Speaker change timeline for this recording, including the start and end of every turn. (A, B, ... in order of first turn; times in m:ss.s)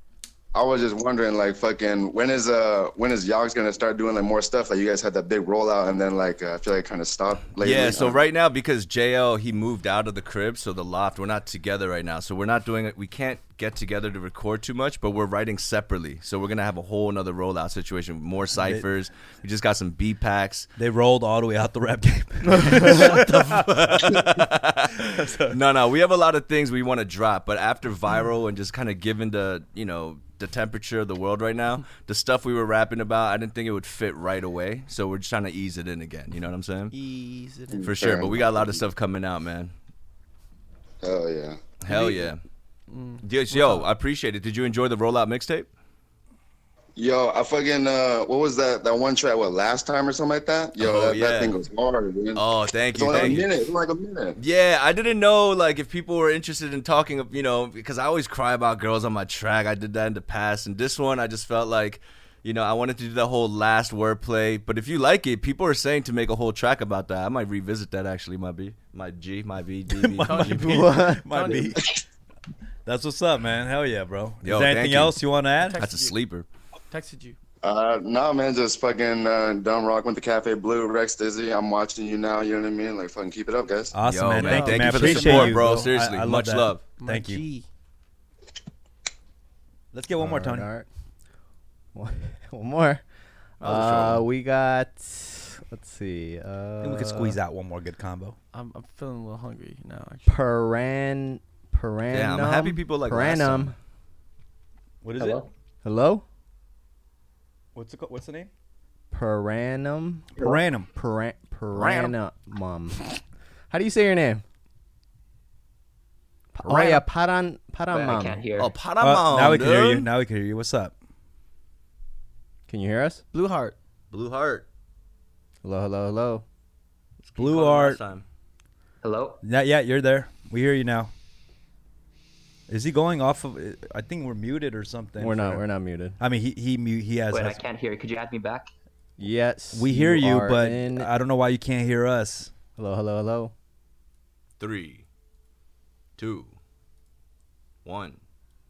0:00.5-0:08.2 A
0:07.6-0:20.7 B
0:18.6-0:18.8 C
0:20.8-0:24.4 C
0:22.5-0:36.9 B
0:25.1-0:25.6 C
0:36.9-0:37.8 D
0:37.7-0:38.9 A
0:37.8-0:39.7 B
0:41.0-0:41.6 A
0:41.8-0:42.4 B
0:41.9-0:42.3 D
0:42.9-0:43.9 D
0:43.2-0:45.7 B
0:47.0-0:54.4 A
0:50.8-0:51.5 B
0:52.3-0:53.5 B
0:54.4-1:10.6 B
1:09.9-1:11.8 C
1:10.2-1:11.7 D
1:10.5-1:11.7 E
1:12.8-1:15.8 C
1:14.4-1:15.2 B
1:15.6-1:16.1 D
1:15.8-1:16.5 B
1:16.9-1:17.4 D
1:17.6-1:23.9 A
1:23.9-1:27.4 C
1:24.0-1:26.8 B
1:24.4-1:25.9 D
1:27.0-1:27.7 D
1:29.9-1:30.7 C
1:30.2-1:30.8 E
1:31.9-1:33.0 E
1:33.6-1:37.4 E
1:33.6-1:34.2 B
1:36.8-1:38.4 C
1:38.5-1:40.3 D
1:40.2-1:43.8 E
1:42.1-1:43.7 B
1:45.0-1:45.4 C
1:45.2-1:45.4 F
1:45.8-1:46.2 E
1:47.7-1:48.5 C
1:49.1-1:54.4 E
1:50.4-1:50.9 C
1:51.8-1:52.1 B
1:56.5-1:58.4 E
1:56.6-1:57.0 D
1:57.9-1:58.8 F
1:58.6-2:00.1 B
1:59.0-2:00.9 C
2:02.7-2:03.2 E
2:03.3-2:03.8 D
2:04.1-2:04.6 B
2:05.6-2:06.4 E
2:07.2-2:08.2 B
2:07.4-2:08.0 C
2:09.0-2:09.4 F
2:09.4-2:11.1 C
2:12.7-2:15.6 C
2:15.2-2:16.2 E
2:16.2-2:17.6 C
2:17.3-2:18.7 F
2:19.2-2:21.1 E
2:19.7-2:22.5 C
2:22.8-2:23.5 E
2:24.6-2:25.0 B
2:26.2-2:26.5 B
2:27.8-2:28.2 B